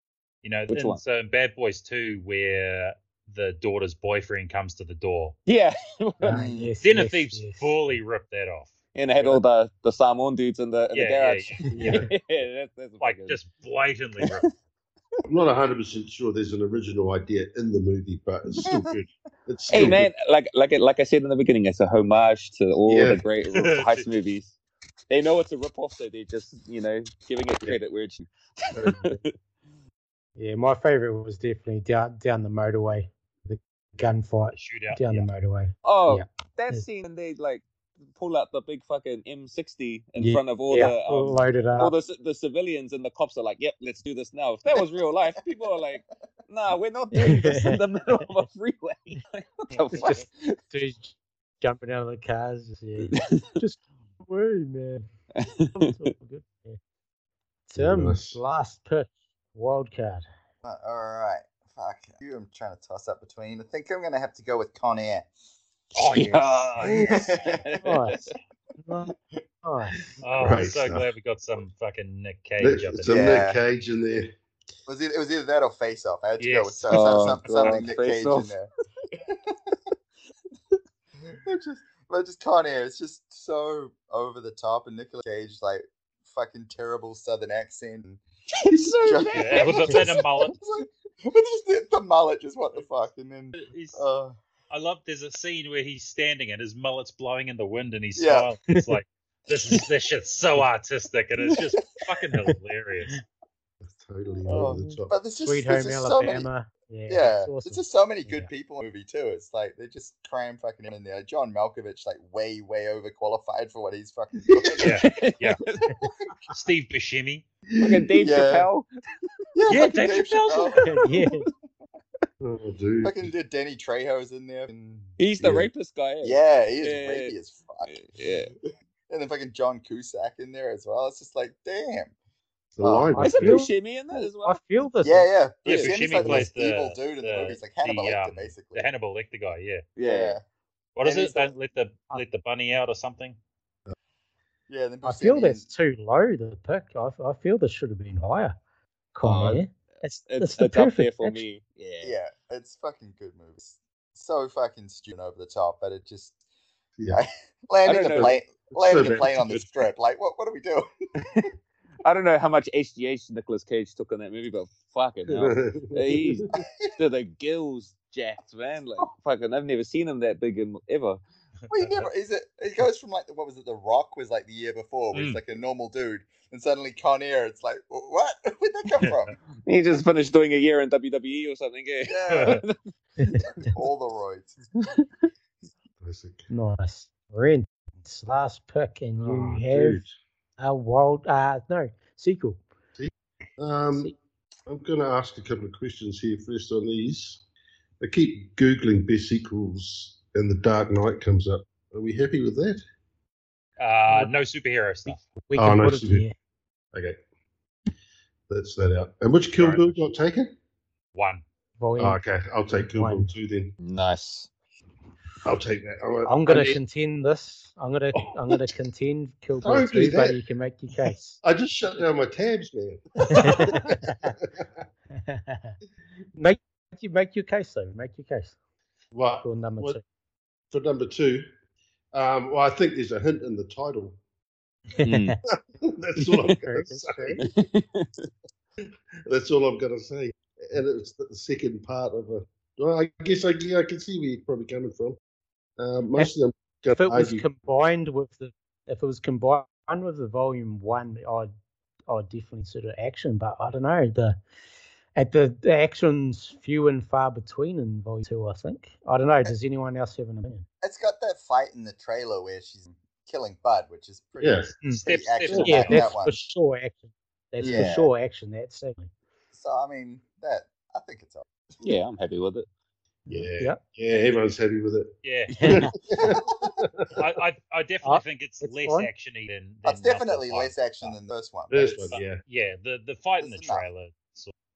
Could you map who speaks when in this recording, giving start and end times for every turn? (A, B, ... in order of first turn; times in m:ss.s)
0:00.4-0:05.4 A
0:00.7-0:01.0 B
0:05.5-0:06.5 B
0:06.2-0:07.7 C
0:06.3-0:06.7 D
0:06.8-0:08.8 A
0:08.9-0:13.4 B
0:10.9-0:12.0 A
0:11.7-0:12.0 C
0:11.7-0:12.1 E
0:13.0-0:14.5 A
0:14.2-0:14.5 B
0:15.3-0:20.1 E
0:18.6-0:18.9 D
0:19.7-0:24.5 B
0:22.8-0:23.2 E
0:23.5-0:24.0 A
0:25.1-0:29.3 B
0:28.7-0:29.2 E
0:30.4-0:36.8 C
0:34.5-0:35.2 A
0:35.8-0:50.6 B
0:40.2-0:41.9 C
0:47.1-0:47.8 C
0:49.7-0:55.1 C
0:53.0-0:53.6 B
0:55.4-0:55.9 B
0:55.7-0:56.8 C
0:57.7-1:00.2 C
0:57.8-0:58.4 E
1:00.6-1:05.3 D
1:05.9-1:07.1 A
1:06.0-1:08.3 B
1:06.9-1:07.6 D
1:07.8-1:08.2 C
1:08.8-1:09.1 C
1:09.6-1:09.9 C
1:10.2-1:13.4 A
1:10.4-1:11.0 E
1:12.6-1:14.3 E
1:13.0-1:13.6 D
1:14.9-1:18.7 D
1:16.4-1:17.3 A
1:16.9-1:18.5 B
1:19.3-1:19.8 D
1:21.2-1:34.4 D
1:28.6-1:30.2 B
1:29.3-1:30.6 A
1:33.6-1:34.0 A
1:34.7-1:43.2 A
1:38.2-1:38.5 D
1:38.7-1:39.0 C
1:43.8-1:45.1 E
1:44.5-1:46.5 D
1:44.5-1:48.5 C
1:47.1-1:55.0 D
1:54.5-1:54.9 E
1:54.8-1:55.6 A
1:54.8-1:55.9 B
1:56.5-1:57.4 A
1:57.7-1:58.2 E
1:57.8-1:58.8 B
1:58.2-1:58.7 D
1:59.5-2:00.9 D
1:59.7-2:00.9 A
2:00.8-2:01.5 C
2:02.4-2:03.3 E
2:03.0-2:05.6 D
2:05.2-2:07.3 B
2:05.4-2:05.7 E
2:06.2-2:07.9 D
2:07.8-2:08.5 B
2:09.1-2:12.1 D
2:12.7-2:13.7 E
2:12.8-2:13.2 D
2:13.1-2:15.3 C
2:13.2-2:14.6 B
2:15.0-2:18.9 D
2:15.6-2:19.8 A
2:15.7-2:16.3 B
2:20.0-2:20.4 B
2:20.0-2:20.4 D
2:21.0-2:23.4 A
2:21.0-2:21.5 D
2:24.7-2:25.6 D
2:25.0-2:28.5 C
2:29.1-2:31.4 C
2:29.2-2:29.6 B
2:30.2-2:32.1 B
2:32.0-2:36.3 D
2:37.1-2:40.9 D
2:37.8-2:38.3 B
2:38.0-2:39.6 E
2:41.2-2:41.5 B
2:42.0-2:51.2 B
2:45.3-2:46.5 E
2:46.5-2:46.9 D
2:51.7-2:59.3 D
2:55.1-2:55.4 A
2:59.0-2:59.2 A
2:59.6-3:02.7 B
3:02.0-3:02.6 D
3:02.3-3:02.6 A
3:03.4-3:04.5 D
3:04.8-3:05.0 B
3:06.0-3:06.5 E
3:06.5-3:10.0 C
3:09.2-3:10.2 E
3:10.6-3:12.6 C
3:13.0-3:14.1 E
3:14.7-3:17.4 E
3:18.0-3:22.8 E
3:23.8-3:25.2 A
3:25.0-3:26.3 C
3:25.6-3:26.2 E
3:28.5-3:30.5 E
3:29.6-3:30.0 A
3:31.1-3:31.4 A
3:31.8-3:32.2 C
3:32.0-3:33.8 E
3:32.9-3:33.3 C
3:33.8-3:34.5 B
3:35.4-3:36.8 E
3:36.2-3:41.4 C
3:38.1-3:38.6 E
3:39.6-3:40.4 E
3:41.4-3:44.7 E
3:43.3-3:44.3 C
3:45.2-3:45.8 C
3:46.3-3:48.5 C
3:49.1-3:50.0 E
3:49.4-3:50.0 C
3:50.7-3:51.4 E
3:52.1-3:54.2 E
3:55.0-3:55.4 C
3:55.0-3:55.4 B
3:55.5-3:57.4 E
3:56.5-3:57.4 C
3:57.4-3:58.3 B
3:59.2-4:05.2 E
4:05.8-4:07.4 E
4:06.9-4:11.5 C
4:12.1-4:14.4 C
4:15.2-4:20.6 C
4:20.8-4:26.4 D
4:24.4-4:24.8 E
4:25.0-4:26.0 A
4:25.4-4:25.7 E
4:25.6-4:29.1 C
4:27.6-4:28.0 D
4:29.5-4:31.5 D
4:31.8-4:32.6 B
4:33.3-4:35.1 E
4:35.2-4:35.7 A
4:35.6-4:35.9 C
4:35.6-4:37.2 E
4:36.2-4:36.7 D
4:37.2-4:41.1 A
4:38.0-4:39.1 C
4:39.8-4:42.2 D
4:41.7-4:42.4 E
4:42.1-4:44.5 A
4:43.4-4:43.8 D